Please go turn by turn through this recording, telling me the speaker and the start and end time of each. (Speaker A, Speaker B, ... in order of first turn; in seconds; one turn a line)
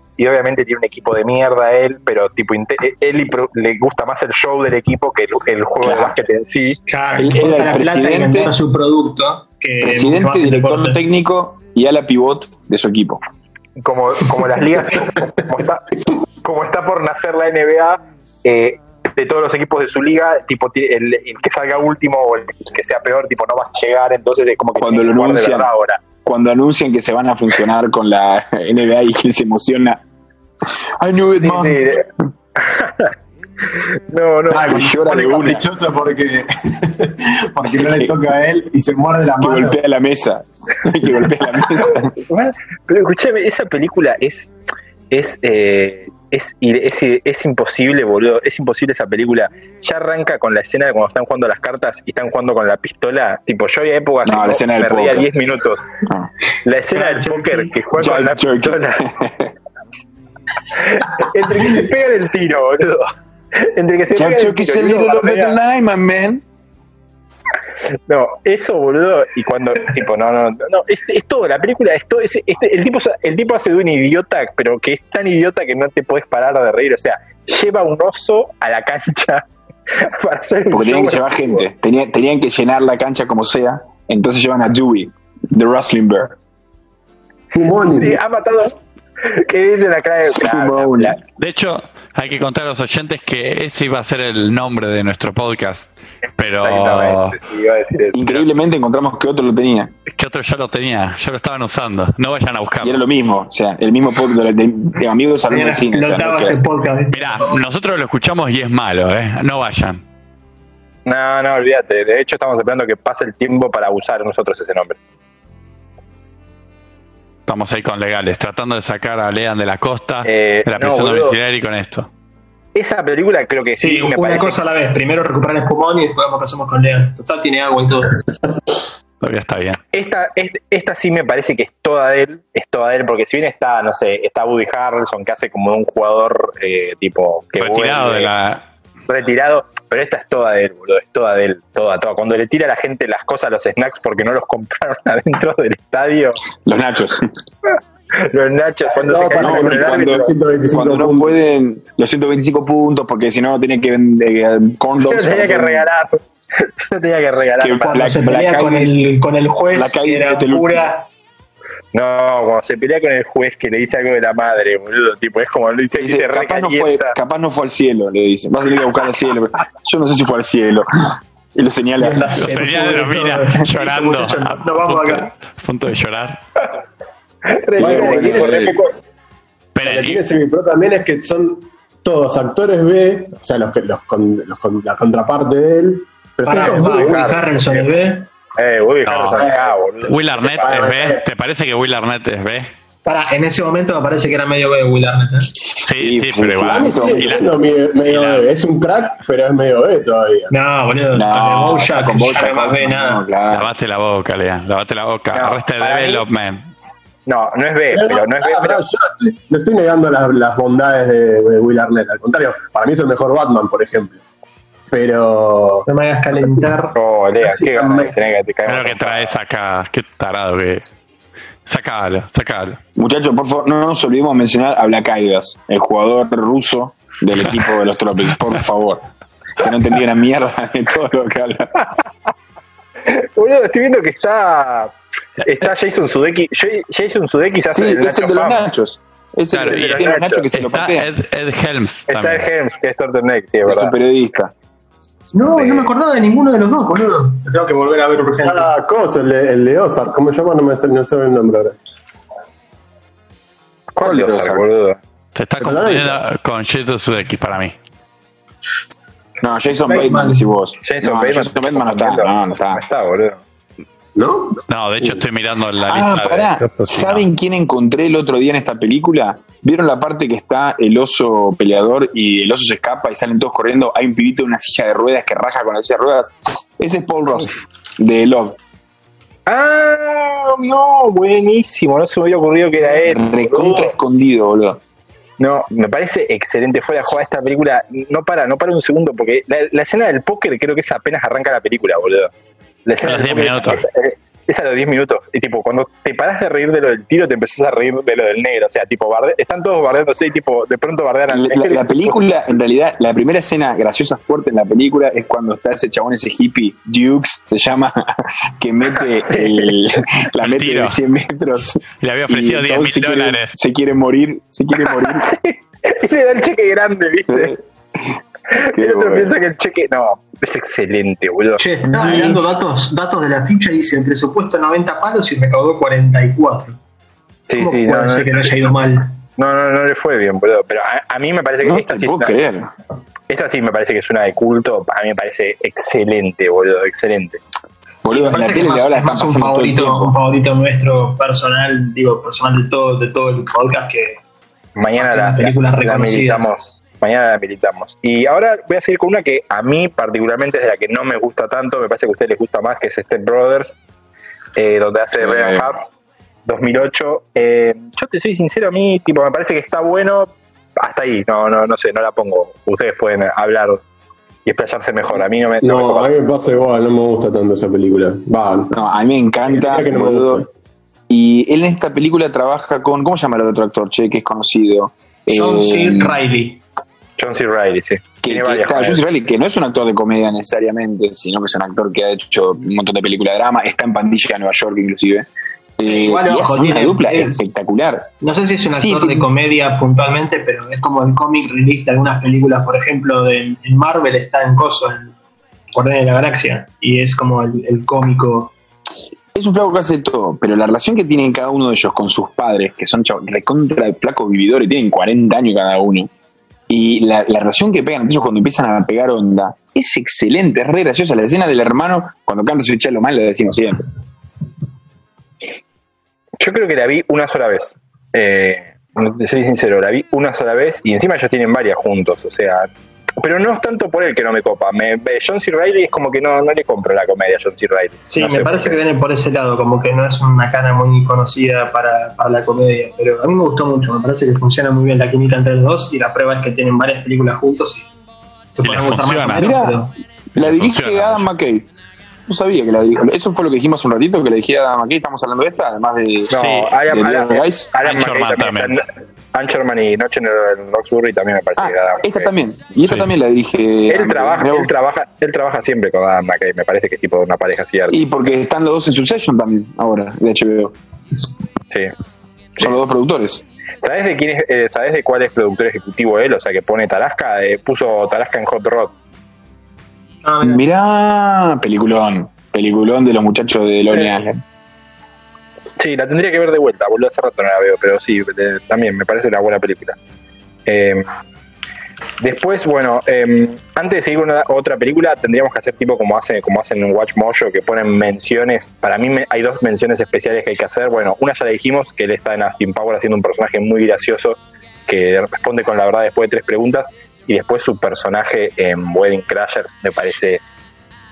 Speaker A: 0.2-6.8
Speaker B: 5.8-6.2
Speaker C: 6.9-11.0
Speaker B: 7.2-8.5
Speaker B: 9.8-13.2
Speaker A: 13.8-26.0
Speaker B: 24.8-25.7
Speaker B: 26.2-30.0
Speaker B: 31.0-31.9
Speaker A: 31.4-33.1
Speaker A: 33.8-35.1
Speaker D: 34.5-39.8
Speaker B: 34.6-35.6
Speaker B: 37.7-38.1
Speaker B: 39.4-42.1
Speaker A: 41.9-44.5
Speaker A: 45.1-55.9
Speaker B: 54.2-55.3
Speaker A: 56.6-59.0
Speaker C: 56.9-57.7
Speaker B: 58.0-59.5
Speaker A: 60.8-65.6
Speaker B: 64.2-66.4
Speaker A: 68.1-81.7
Speaker B: 80.7-86.3
Speaker D: 87.5-88.2
Speaker A: 87.9-91.2
Speaker B: 90.3-91.2
Speaker E: 91.4-97.4
Speaker A: 96.5-98.2
Speaker B: 98.1-99.9
Speaker E: 100.1-103.0
Speaker B: 102.8-106.6
Speaker C: 105.5-107.6
Speaker E: 107.1-110.0
Speaker A: 111.1-115.0
Speaker E: 117.5-122.1
Speaker A: 120.2-121.4
Speaker A: 122.8-124.6
Speaker C: 123.8-128.2
Speaker E: 129.2-129.8
Speaker A: 129.9-138.3
Speaker E: 137.6-138.6
Speaker A: 139.1-146.4
Speaker B: 146.7-147.3
Speaker A: 147.7-150.3
Speaker D: 148.9-151.3
Speaker B: 149.4-155.9
Speaker A: 155.0-158.1
Speaker B: 157.6-159.1
Speaker C: 157.9-161.1
Speaker B: 159.7-160.8
Speaker A: 161.9-167.2
Speaker B: 165.9-172.6
Speaker C: 172.0-175.3
Speaker E: 172.4-176.4
Speaker A: 177.5-178.9
Speaker D: 177.8-178.8
Speaker B: 177.8-178.7
Speaker E: 179.8-180.2
Speaker D: 179.8-187.3
Speaker C: 186.4-188.3
Speaker A: 186.5-187.9
Speaker A: 188.6-190.8
Speaker E: 189.1-189.4
Speaker D: 189.3-189.7
Speaker E: 190.1-192.7
Speaker D: 190.6-191.2
Speaker C: 193.1-195.5
Speaker E: 195.8-198.5
Speaker B: 196.0-197.4
Speaker D: 196.6-200.5
Speaker C: 200.5-203.2
Speaker B: 201.1-203.7
Speaker E: 203.5-206.7
Speaker A: 205.3-206.2
Speaker A: 207.3-208.8
Speaker D: 207.9-214.2
Speaker D: 214.9-216.7
Speaker C: 215.9-217.0
Speaker A: 216.9-219.3
Speaker D: 217.4-218.2
Speaker E: 218.7-220.8
Speaker E: 221.7-222.8
Speaker B: 222.9-229.1
Speaker B: 229.6-231.7
Speaker A: 233.1-238.7
Speaker B: 237.7-241.1
Speaker E: 239.5-242.5
Speaker A: 239.6-240.5
Speaker A: 242.1-243.9
Speaker B: 243.7-244.5
Speaker C: 245.3-248.7
Speaker A: 245.6-245.9
Speaker D: 248.4-251.8
Speaker A: 254.0-255.0
Speaker B: 254.0-254.6
Speaker E: 255.3-257.8
Speaker D: 255.6-256.2
Speaker B: 259.4-262.8
Speaker C: 259.8-260.5
Speaker A: 260.8-263.4
Speaker D: 264.2-265.1
Speaker E: 264.7-267.2
Speaker B: 265.9-278.6
Speaker A: 279.5-283.9
Speaker B: 283.0-284.8
Speaker A: 285.4-292.3
Speaker A: 292.9-302.3
Speaker E: 293.0-293.8
Speaker B: 301.3-315.3
Speaker A: 309.0-309.8
Speaker E: 310.4-311.0
Speaker E: 312.0-313.5
Speaker A: 314.8-317.6
Speaker B: 317.3-319.4
Speaker A: 318.5-321.6
Speaker C: 321.6-326.8
Speaker B: 321.9-322.5
Speaker A: 327.5-328.5
Speaker C: 327.6-329.2
Speaker A: 329.4-332.5
Speaker B: 331.6-332.7
Speaker A: 333.3-337.4
Speaker B: 338.0-340.1
Speaker C: 338.1-344.2
Speaker A: 344.8-353.8
Speaker C: 345.0-346.5
Speaker A: 354.6-355.9
Speaker A: 356.5-363.8
Speaker A: 364.4-366.1
Speaker D: 365.6-368.7
Speaker B: 368.7-370.4
Speaker D: 369.5-370.5
Speaker B: 371.1-376.2
Speaker C: 375.3-376.6
Speaker A: 377.2-379.0
Speaker B: 378.2-388.1
Speaker C: 385.9-387.4
Speaker C: 388.2-395.1
Speaker B: 388.8-389.3
Speaker C: 395.7-398.5
Speaker B: 399.4-406.1
Speaker B: 406.7-413.9
Speaker A: 416.4-428.8
Speaker C: 428.1-437.9
Speaker C: 438.6-439.9
Speaker E: 438.6-439.5
Speaker B: 439.4-439.8
Speaker B: 440.4-441.7
Speaker E: 440.4-441.3
Speaker B: 442.3-446.4
Speaker A: 446.3-452.3
Speaker E: 446.4-446.7
Speaker B: 446.9-447.7
Speaker E: 447.8-448.8
Speaker B: 451.6-454.7
Speaker A: 453.9-458.0
Speaker B: 457.9-460.8
Speaker B: 462.6-463.4
Speaker A: 463.8-468.9
Speaker C: 470.2-470.6
Speaker B: 470.4-474.4
Speaker A: 475.8-480.0
Speaker A: 480.7-481.1
Speaker A: 482.2-500.4